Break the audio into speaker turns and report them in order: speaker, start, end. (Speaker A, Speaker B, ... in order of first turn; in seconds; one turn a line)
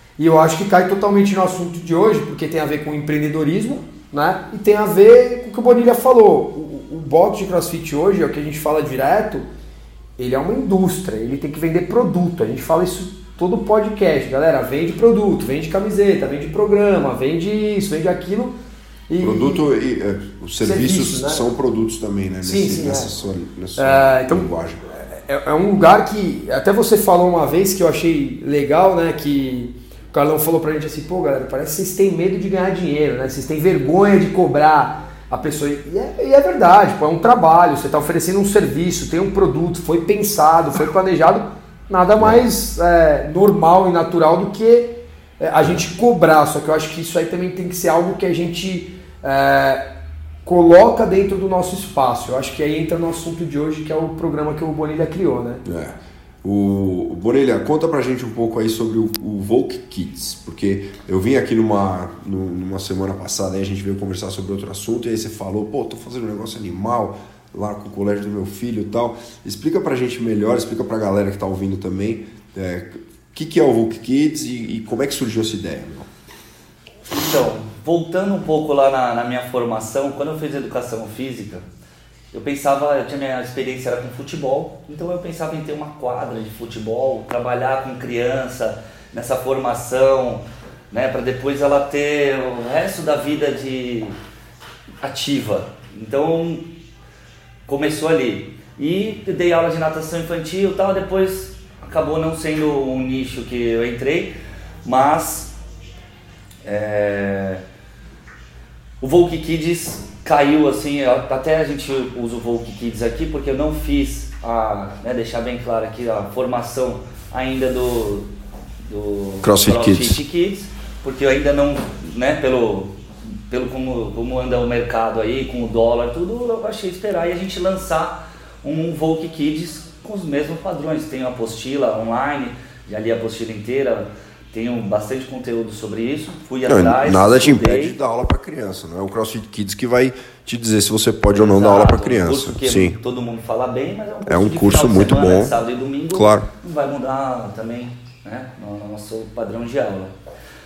Speaker A: 0.2-9.5
Speaker A: 10.2-18.6
Speaker A: 19.1-19.7
Speaker B: 19.2-24.9
Speaker A: 20.6-21.4
Speaker A: 22.4-23.1
Speaker A: 23.8-49.8
Speaker A: 50.5-55.6
Speaker B: 55.6-76.1
Speaker C: 77.1-81.6
Speaker C: 82.3-94.2
Speaker C: 95.0-96.7
Speaker C: 97.7-104.3
Speaker C: 104.8-105.5
Speaker C: 106.6-107.6
Speaker C: 109.0-118.3
Speaker C: 118.9-122.9
Speaker B: 119.4-120.2
Speaker C: 123.5-138.0
Speaker B: 136.7-143.0
Speaker C: 141.3-150.1
Speaker B: 144.3-145.5
Speaker B: 146.1-146.5